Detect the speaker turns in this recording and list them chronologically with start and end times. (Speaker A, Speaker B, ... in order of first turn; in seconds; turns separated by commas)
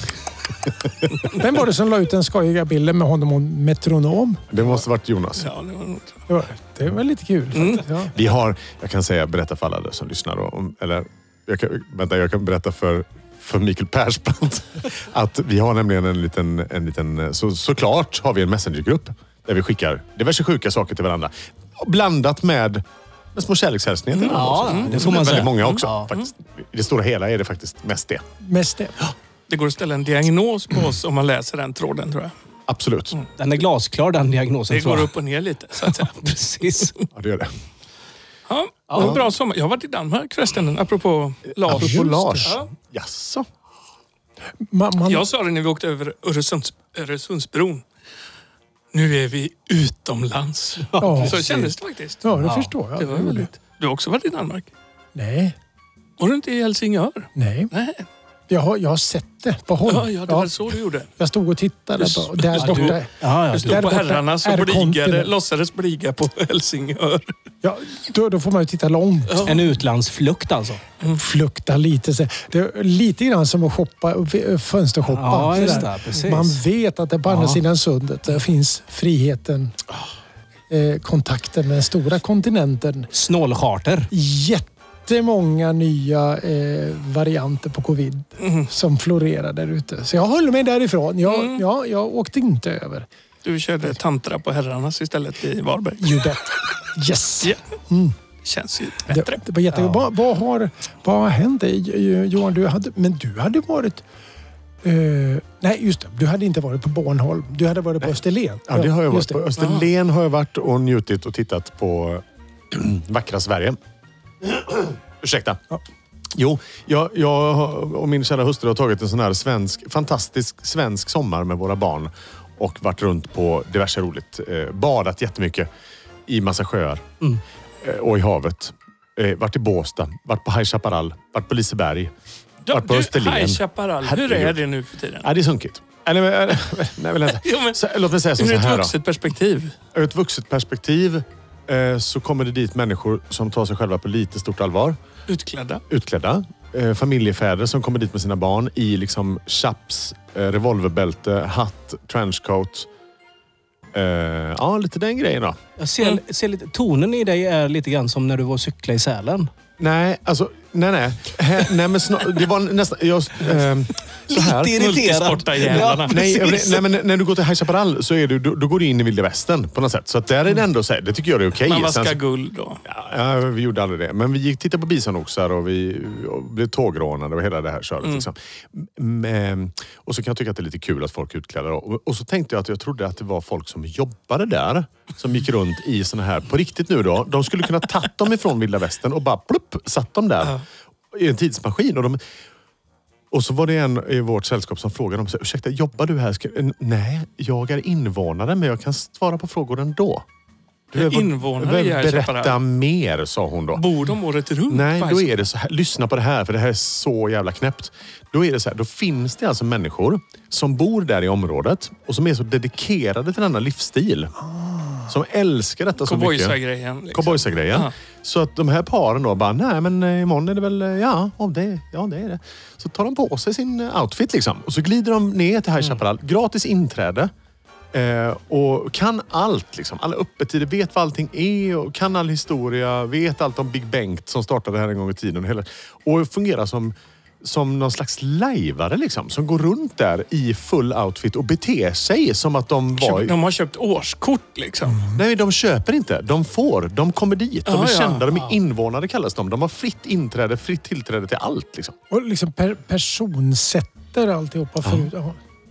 Speaker A: 0.7-1.4, Speaker B: 1.4-4.5, Speaker A: 4.5-5.5, Speaker C: 5.4-6.2, Speaker B: 6.3-8.1, Speaker C: 7.5-7.8, Speaker A: 8.1-28.2, Speaker C: 24.1-26.3, Speaker D: 24.3-26.1, Speaker B: 28.4-29.0, Speaker C: 29.5-32.3, Speaker A: 32.7-33.1, Speaker D: 33.4-35.1, Speaker C: 34.7-36.3, Speaker D: 36.2-36.9, Speaker A: 37.1-37.5, Speaker C: 38.5-42.7, Speaker D: 38.9-39.2, Speaker A: 39.0-39.2, Speaker A: 41.6-43.5, Speaker B: 41.7-42.5, Speaker B: 44.6-45.3, Speaker C: 45.0-47.8, Speaker C: 48.9-52.3, Speaker D: 50.9-51.7, Speaker B: 51.0-51.5, Speaker B: 52.2-53.5, Speaker D: 52.4-52.7, Speaker C: 53.0-54.7, Speaker B: 55.1-55.5, Speaker C: 56.2-58.0, Speaker B: 57.4-57.7, Speaker B: 58.5-60.5, Speaker C: 59.9-61.1, Speaker B: 61.2-65.3, Speaker C: 62.0-63.0, Speaker D: 62.6-63.9, Speaker C: 63.5-67.3, Speaker B: 67.6-69.5, Speaker C: 69.3-69.5, Speaker D: 69.4-70.8, Speaker B: 71.1-79.8, Speaker D: 75.1-76.6, Speaker D: 77.3-77.6, Speaker B: 80.7-83.1, Speaker D: 83.1-84.1, Speaker B: 84.1-93.1, Speaker C: 88.4-88.7, Speaker C: 91.3-91.6, Speaker C: 93.4-96.2, Speaker B: 96.0-98.1, Speaker C: 98.4-99.4, Speaker B: 99.1-104.0, Speaker B: 104.8-109.4, Speaker A: 108.7-113.8, Speaker C: 109.6-109.9, Speaker A: 114.4-115.6, Speaker A: 116.4-125.7, Speaker A: 126.3-127.0, Speaker A: 127.8-132.1, Speaker C: 132.7-135.3, Speaker A: 132.7-134.6, Speaker A: 135.2-138.9, Speaker C: 137.4-137.8, Speaker C: 138.4-139.7, Speaker A: 139.9-145.0, Speaker C: 145.3-145.8, Speaker A: 145.9-152.9, Speaker A: 153.9-155.6, Speaker D: 155.8-159.5, Speaker A: 159.8-164.8, Speaker D: 164.3-166.8, Speaker C: 164.7-166.2, Speaker A: 166.1-172.2, Speaker C: 171.6-172.8, Speaker A: 172.9-190.6, Speaker A: 191.1-192.2, Speaker A: 193.3-200.2, Speaker A: 200.9-203.8, Speaker C: 200.9-202.6, Speaker C: 203.7-205.3, Speaker A: 204.7-214.3, Speaker B: 214.6-215.0, Speaker A: 215.1-216.6, Speaker C: 216.0-217.9, Speaker A: 217.1-227.3, Speaker A: 227.9-243.3, Speaker C: 242.9-245.1, Speaker A: 245.1-251.9, Speaker C: 247.7-248.3, Speaker B: 252.1-255.4